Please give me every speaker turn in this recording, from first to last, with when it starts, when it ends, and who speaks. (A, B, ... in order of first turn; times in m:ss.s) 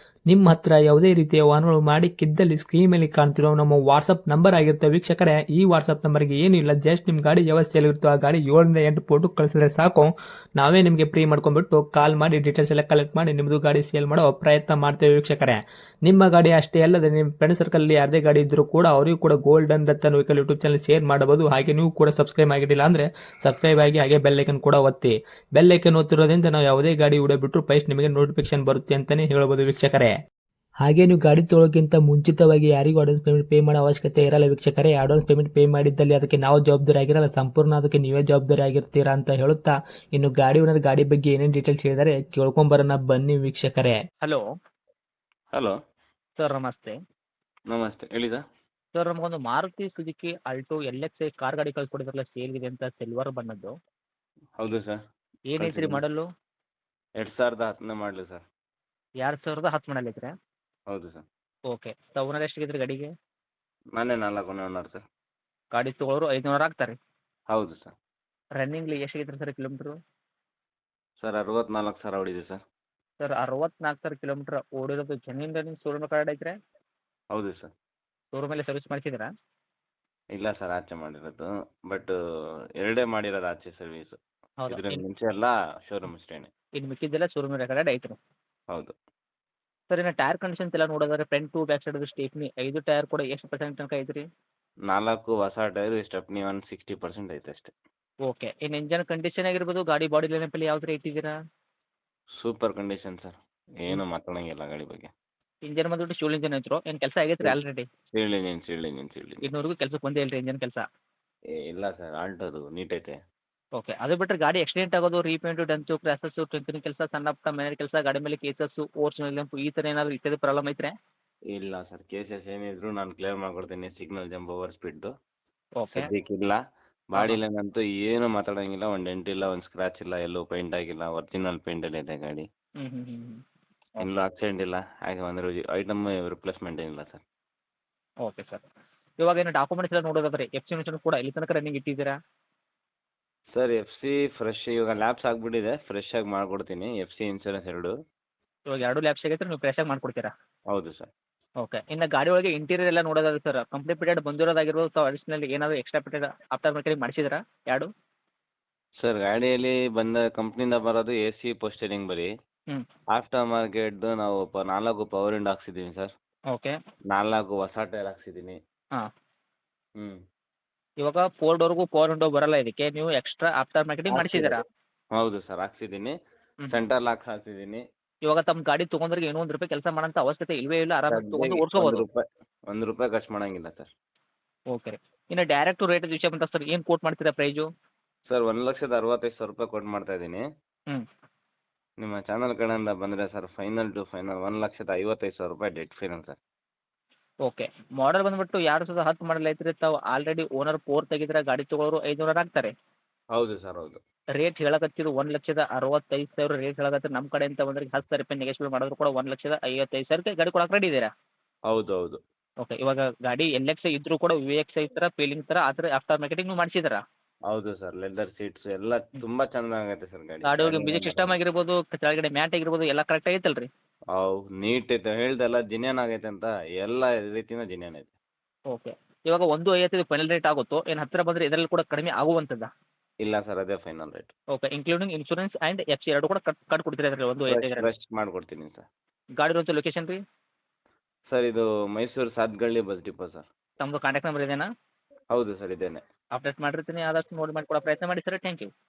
0:00.3-0:30.1 A
0:30.8-0:44.0 A
0:46.4-0:46.9 B
0:47.7-0:48.4 C
0:48.9-0:53.7 B
0:54.6-0:55.0 C
0:55.5-0:56.2 B
0:55.6-0:56.0 C
0:57.2-0:58.4 C
0:59.2-1:00.3 B
1:00.9-1:01.2 C
1:01.7-1:03.1 B
1:03.9-1:05.0 C
1:05.7-1:07.0 B
1:07.5-1:07.9 C
1:08.6-1:09.9 B
1:11.2-1:12.6 C
1:13.2-1:16.5 B
1:17.3-1:17.7 C
1:18.3-1:19.3 B
1:20.3-1:22.1 C
1:22.8-1:26.5 C
1:24.6-1:25.0 B
1:26.8-1:28.2 B
1:29.9-1:34.2 B
1:34.9-1:37.7 C
1:38.2-1:41.3 B
1:42.4-1:45.1 C
1:45.7-1:47.8 B
1:48.1-1:49.4 C
1:49.4-1:50.8 B
1:51.6-1:53.2 C
1:53.8-2:00.9 B
2:01.5-2:05.1 C
2:05.8-2:06.1 B
2:05.9-2:06.6 C
2:07.1-2:12.4 C
2:12.8-2:13.4 B
2:14.0-2:17.2 C
2:18.2-2:18.6 B
2:19.2-2:22.1 B
2:23.5-2:27.9 C
2:28.7-2:30.3 B
2:30.7-2:31.1 C
2:31.6-2:37.9 B
2:39.0-2:42.3 C
2:43.1-2:46.1 C
2:47.1-2:48.6 C
2:51.0-2:54.6 B
2:54.1-2:54.6 C
2:55.1-2:56.1 C
2:56.7-2:57.8 C
2:58.3-3:02.0 B
3:01.1-3:03.9 C
3:04.7-3:07.6 B
3:08.3-3:10.4 C
3:12.0-3:16.4 C
3:17.4-3:22.7 B
3:23.3-3:24.0 C
3:24.4-3:31.1 B
3:31.7-3:32.2 C
3:32.6-3:37.0 B
3:37.5-3:41.3 C
3:40.5-3:43.7 B
3:44.1-3:48.1 C
3:48.7-3:52.7 B
3:53.2-3:54.3 C
3:54.5-3:57.9 B
3:57.5-3:58.8 C
3:59.4-4:00.2 B
4:01.3-4:03.4 C
4:03.8-4:04.7 B
4:05.3-4:06.0 C
4:06.4-4:08.7 B